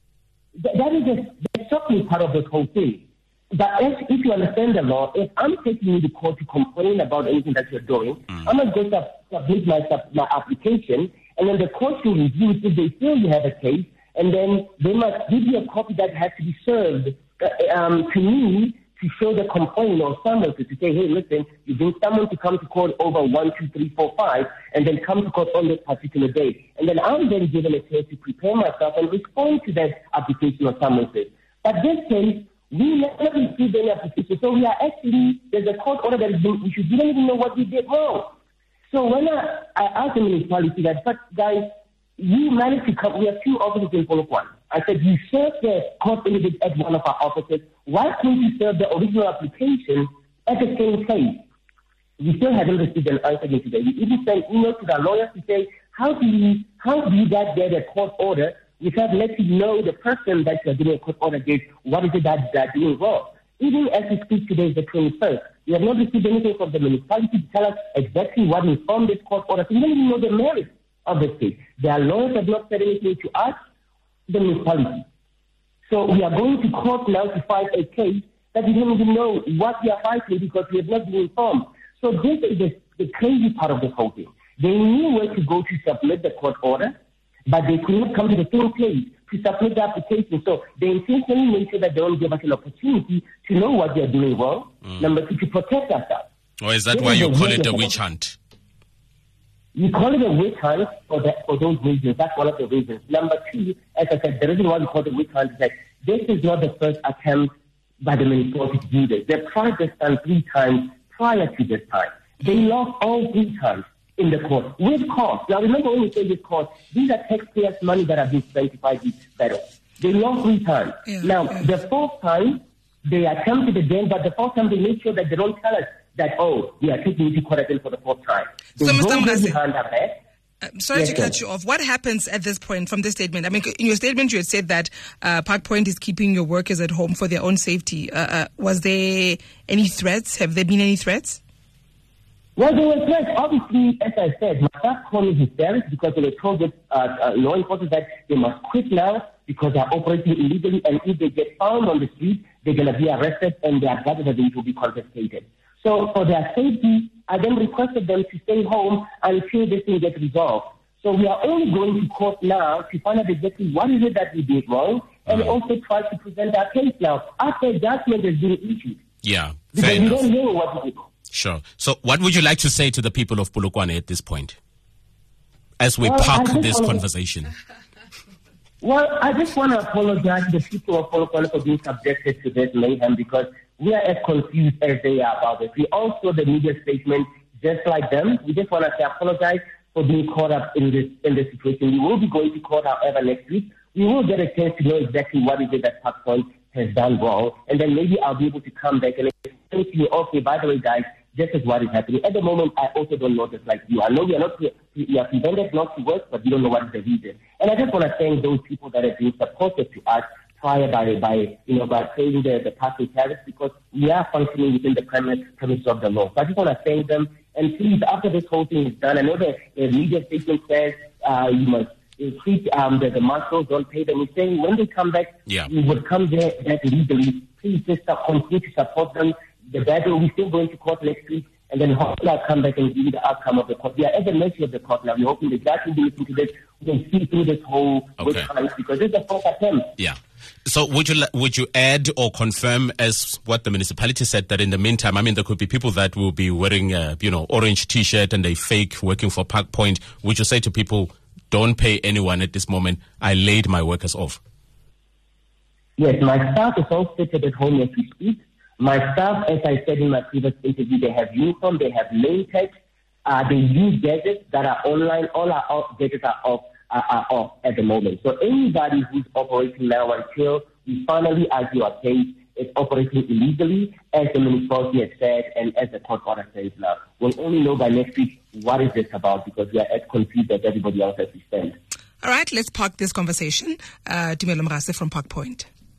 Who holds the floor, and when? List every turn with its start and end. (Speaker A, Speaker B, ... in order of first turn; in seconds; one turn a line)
Speaker A: 0.6-38.3
Speaker A: 38.9-51.4
Speaker A: 52.2-73.6
Speaker A: 74.3-75.0
Speaker A: 75.9-86.9
Speaker A: 87.5-96.2
Speaker B: 96.6-98.3
Speaker A: 96.9-98.0
Speaker A: 99.7-130.2
Speaker C: 121.0-121.7
Speaker C: 128.8-129.6
Speaker C: 130.6-141.4
Speaker A: 130.9-131.4
Speaker A: 142.6-169.0
Speaker B: 165.2-165.6
Speaker B: 169.2-170.2
Speaker A: 169.7-171.1
Speaker B: 171.3-174.6
Speaker B: 175.8-177.5
Speaker A: 176.0-177.0
Speaker A: 178.8-239.9
Speaker B: 238.2-238.5
Speaker B: 240.0-254.4
Speaker A: 256.0-281.8
Speaker C: 282.2-285.7